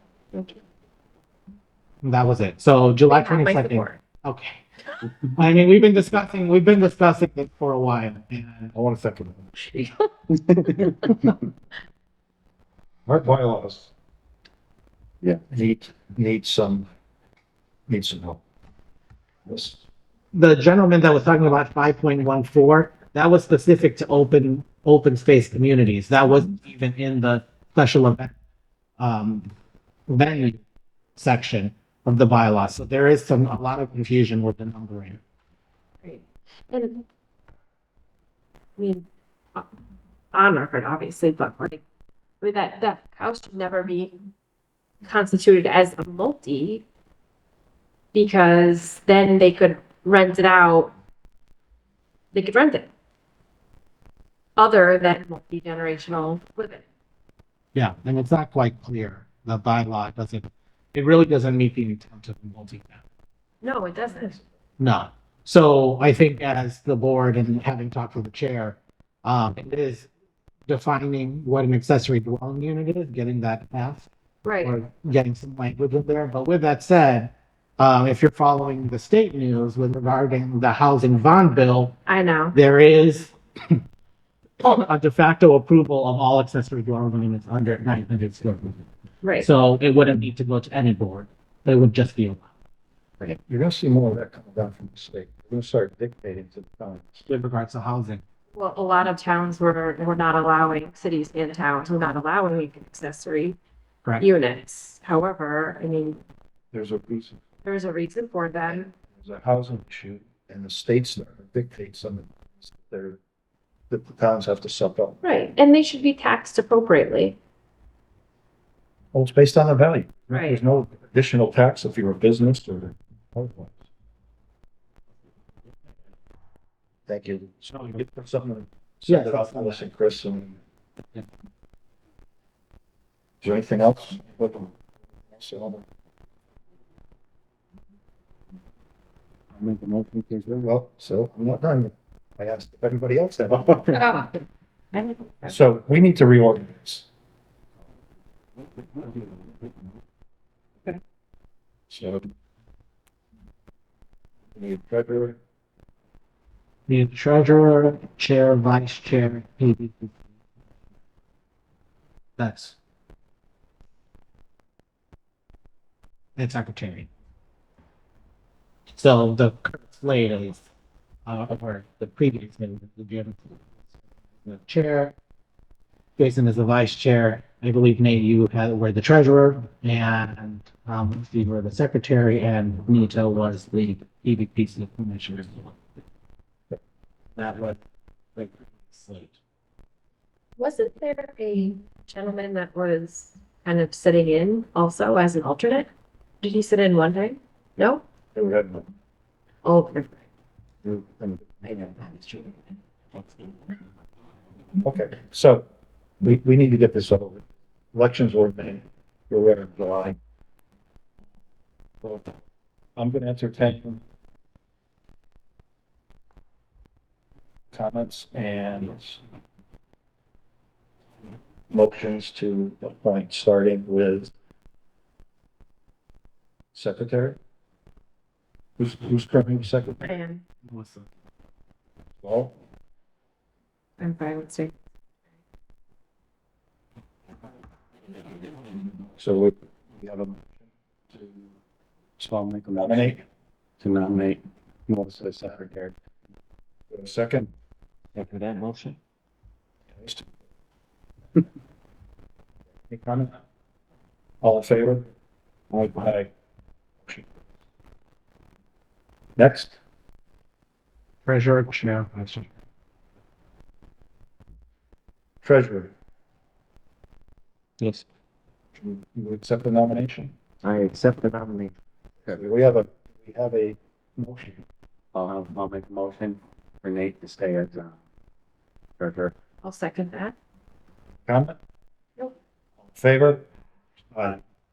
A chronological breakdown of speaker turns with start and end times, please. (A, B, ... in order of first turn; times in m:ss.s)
0:00.3-0:00.6 A
0:02.0-0:04.6 B
0:03.1-0:04.0 A
0:05.2-0:08.8 B
0:08.7-0:09.4 C
0:09.6-0:10.1 A
0:13.1-0:13.9 C
0:15.5-0:16.9 C
0:17.9-0:18.4 C
0:19.4-0:19.8 C
0:20.3-0:28.3 B
0:29.0-0:29.5 B
0:30.1-0:30.6 B
0:31.2-0:35.2 B
0:36.0-0:37.0 A
0:38.8-0:39.7 A
0:40.3-0:41.8 A
0:42.4-0:44.2 A
0:45.0-0:46.8 A
0:48.1-0:50.9 A
0:52.3-0:52.9 A
0:54.6-0:56.8 A
0:57.8-1:03.0 B
1:03.6-1:04.4 A
1:04.8-1:10.1 B
1:10.7-1:14.1 B
1:14.4-1:14.8 A
1:14.6-1:22.0 B
1:22.1-1:22.6 A
1:22.5-1:23.8 B
1:24.6-1:28.8 B
1:29.2-1:29.5 A
1:29.4-1:32.5 B
1:33.3-1:37.3 C
1:37.3-1:38.2 B
1:38.5-1:43.6 A
1:44.2-1:46.2 A
1:46.7-1:47.4 C
1:47.6-1:48.9 A
1:49.2-1:53.2 C
1:53.9-1:55.2 C
1:55.2-1:57.4 A
1:59.1-2:03.8 C
2:00.3-2:00.6 A
2:07.1-2:10.6 C
2:09.1-2:09.8 B
2:13.4-2:14.7 C
2:15.3-2:15.8 C
2:19.5-2:20.7 D
2:20.6-2:24.0 C
2:23.9-2:25.5 A
2:25.5-2:27.1 C
2:31.9-2:32.3 C
2:34.6-2:35.4 C
2:36.9-2:40.1 B
2:42.4-2:42.8 B
2:46.4-2:47.1 B
2:48.9-2:50.7 B
2:51.3-2:53.6 B
2:54.4-2:55.1 B
2:56.2-3:05.8 B
3:07.4-3:07.8 B
3:08.4-3:09.4 B
3:10.6-3:15.9 A
3:16.4-3:18.0 A
3:18.3-3:18.9 C
3:19.6-3:20.2 A
3:20.8-3:22.2 C
3:24.8-3:25.7 C
3:26.2-3:30.2 C
3:32.0-3:32.4 C
3:33.0-3:34.0 C
3:37.7-3:39.2 C
3:41.7-3:44.3 C
3:46.7-3:47.4 C
3:48.8-3:50.2 C
3:50.0-3:50.4 A
3:50.7-3:51.1 B
3:52.2-3:52.6 C
3:54.0-3:54.7 A
3:59.2-4:01.3 C
4:02.2-4:03.2 D
4:02.7-4:03.2 C
4:03.8-4:06.0 D
4:06.9-4:07.5 C
4:08.2-4:09.0 D
4:09.9-4:10.3 C
4:12.9-4:13.4 C
4:14.4-4:15.1 C
4:15.7-4:16.1 D
4:15.9-4:16.3 C
4:17.0-4:17.4 C
4:19.4-4:19.8 C
4:21.3-4:22.5 B
4:25.4-4:25.9 C
4:28.8-4:30.3 C
4:30.6-4:31.7 D
4:32.3-4:34.6 C
4:35.1-4:38.0 D
4:39.0-4:39.3 D
4:39.6-4:40.4 A
4:41.3-4:41.6 C
4:42.9-4:43.4 C
4:44.1-4:44.4 C